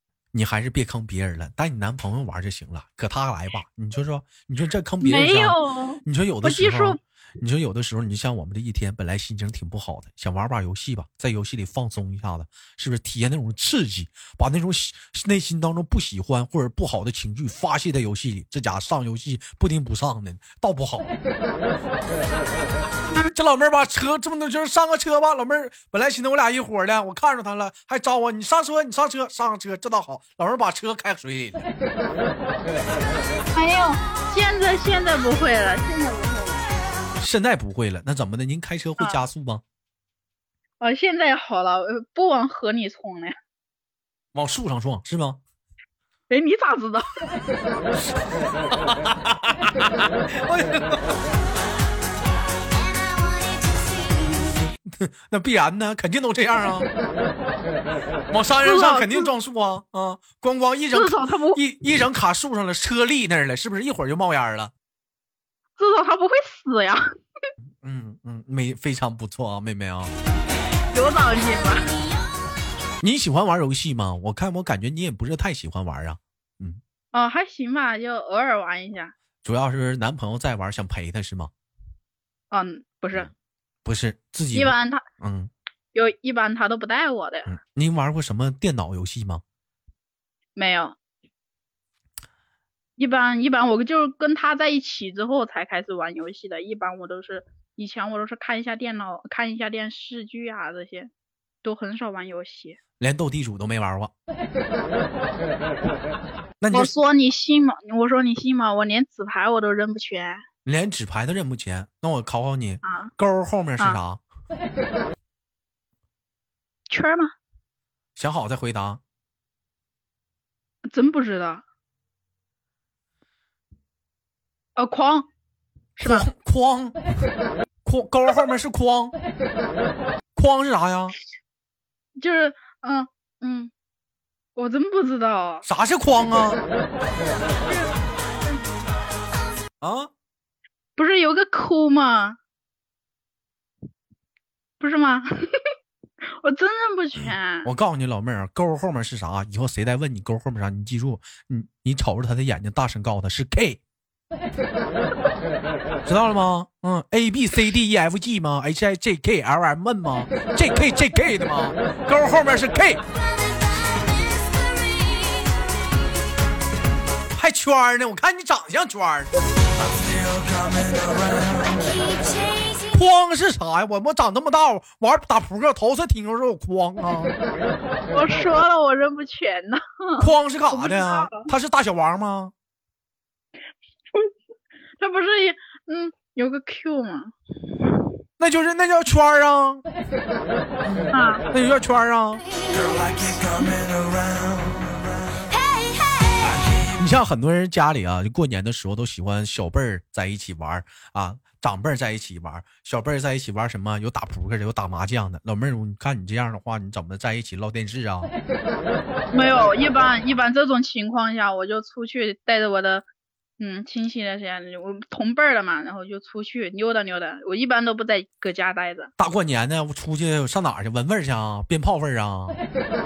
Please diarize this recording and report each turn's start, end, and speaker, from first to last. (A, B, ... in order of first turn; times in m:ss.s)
0:00.3-0:21.1 A
0:05.0-0:07.0 B
0:23.2-0:31.7 A
0:33.5-0:36.7 B
0:37.2-0:39.6 A
0:40.8-0:43.4 B
0:44.3-0:45.4 A
0:46.3-0:47.2 B
0:48.7-0:51.0 A
0:52.7-0:54.5 C
0:54.8-0:56.9 A
0:58.3-1:04.7 A
0:58.6-0:59.3 B
1:00.9-1:01.6 B
1:05.8-1:07.1 B
1:07.8-1:10.1 A
1:10.9-1:11.9 B
1:13.0-1:16.8 A
1:17.1-1:19.1 B
1:19.4-1:21.5 A
1:22.5-1:23.3 B
1:23.8-1:25.5 A
1:24.5-1:25.0 B
1:25.9-1:27.5 B
1:27.5-1:29.4 A
1:30.6-1:31.0 B
1:33.0-1:41.1 B
1:41.6-1:42.8 B
1:43.0-1:44.1 A
1:46.6-1:46.9 A
1:46.7-1:50.4 B
1:50.6-1:54.2 A
1:52.8-1:53.1 B
1:56.9-1:57.3 B
1:58.2-1:59.0 A
2:00.9-2:01.6 B
2:04.8-2:05.3 B
2:06.0-2:06.3 B
2:06.0-2:07.0 A
2:07.8-2:09.2 A
2:10.4-2:11.2 A
2:12.2-2:13.7 B
2:14.6-2:15.6 B
2:15.6-2:16.6 A
2:17.7-2:18.6 B
2:19.8-2:20.1 A
2:21.0-2:22.4 B
2:24.8-2:25.7 B
2:26.3-2:27.7 B
2:27.2-2:33.8 A
2:36.0-2:43.0 A
2:43.2-2:45.8 C
2:47.4-2:49.3 A
2:50.7-2:53.0 C
2:52.9-2:57.4 A
2:58.1-3:01.5 B
3:00.2-3:02.5 A
3:05.0-3:08.1 B
3:08.4-3:09.8 A
3:10.8-3:12.4 A
3:11.1-3:11.4 B
3:12.7-3:13.8 C
3:15.5-3:16.6 C
3:17.0-3:28.3 A
3:29.3-3:33.0 B
3:33.6-3:39.1 B
3:39.2-3:42.6 A